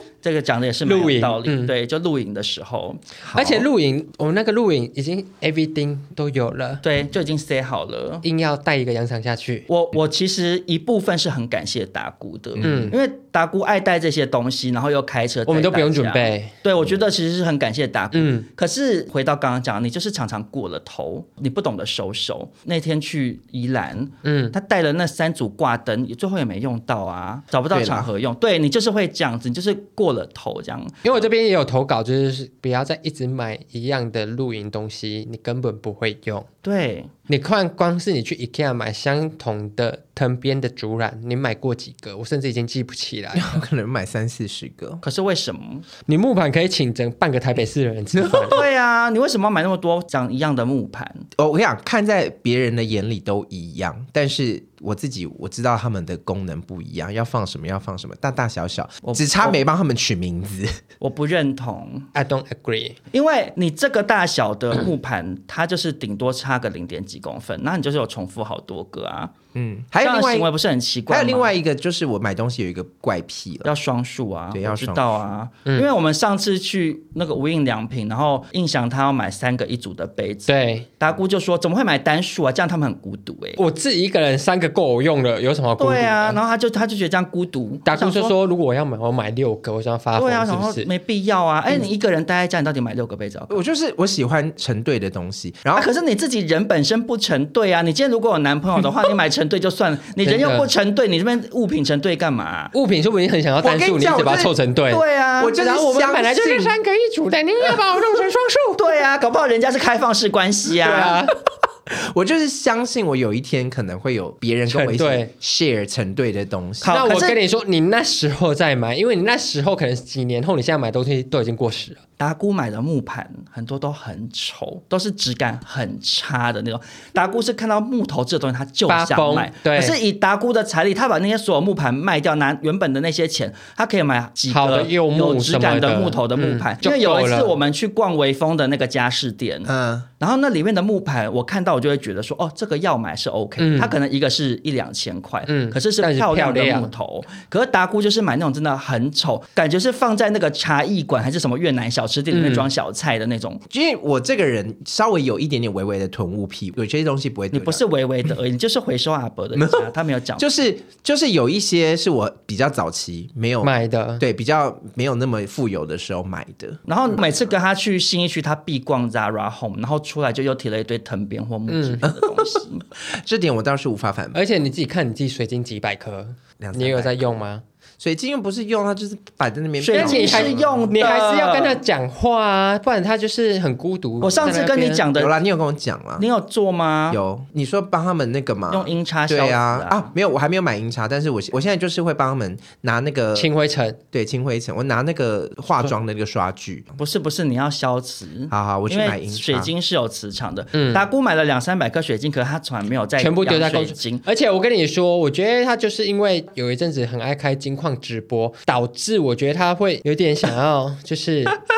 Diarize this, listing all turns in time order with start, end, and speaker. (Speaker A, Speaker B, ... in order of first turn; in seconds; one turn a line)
Speaker A: 0.2-3.0
Speaker B: 0.8-1.7
Speaker C: 3.2-3.7
Speaker B: 3.3-6.8
Speaker A: 6.8-8.2
Speaker B: 8.2-9.7
Speaker A: 9.7-31.2
Speaker C: 12.6-12.9
Speaker B: 12.6-12.9
Speaker B: 15.5-16.5
Speaker B: 18.1-18.5
Speaker B: 24.2-24.5
Speaker C: 27.7-28.1
Speaker B: 31.0-36.5
Speaker A: 36.6-37.1
Speaker B: 37.3-43.5
Speaker C: 43.3-45.0
Speaker A: 45.0-45.9
Speaker B: 46.1-48.6
Speaker A: 48.4-51.2
Speaker C: 51.4-60.7
Speaker A: 59.0-59.6
Speaker A: 61.0-62.1
Speaker B: 62.1-63.0
Speaker A: 63.1-69.3
Speaker C: 69.5-70.5
Speaker A: 70.0-71.5
Speaker C: 71.1-73.7
Speaker A: 73.6-83.6
Speaker C: 74.5-75.2
Speaker B: 80.5-80.9
Speaker B: 83.6-86.4
Speaker A: 85.8-88.3
Speaker B: 87.8-90.9
Speaker A: 90.2-93.6
Speaker C: 93.5-95.9
Speaker A: 95.7-102.7
Speaker B: 100.2-100.7
Speaker B: 102.7-108.8
Speaker C: 103.6-104.5
Speaker A: 104.9-105.6
Speaker C: 105.4-106.8
Speaker A: 108.8-111.2
Speaker B: 110.8-111.3
Speaker C: 111.9-117.0
Speaker B: 114.7-115.3
Speaker A: 116.8-117.4
Speaker B: 116.9-122.0
Speaker A: 122.2-153.6
Speaker B: 128.9-130.0
Speaker B: 134.5-137.5
Speaker C: 139.7-140.1
Speaker B: 143.6-143.9
Speaker B: 145.5-146.9
Speaker B: 152.3-152.7
Speaker C: 153.7-157.8
Speaker A: 157.5-160.4
Speaker C: 159.6-159.8
Speaker C: 160.4-167.2
Speaker B: 163.6-164.2
Speaker A: 166.8-172.8
Speaker B: 171.7-172.0
Speaker C: 172.0-172.4
Speaker C: 173.0-174.4
Speaker B: 174.3-177.6
Speaker C: 176.6-177.4
Speaker C: 178.0-180.9
Speaker A: 179.8-181.8
Speaker B: 179.9-185.0
Speaker A: 184.2-185.3
Speaker C: 185.1-186.3
Speaker A: 186.2-187.2
Speaker C: 187.1-193.5
Speaker A: 188.7-190.1
Speaker B: 193.3-194.0
Speaker C: 194.1-196.9
Speaker A: 197.0-204.2
Speaker C: 198.5-199.7
Speaker B: 200.7-201.1
Speaker B: 203.2-211.6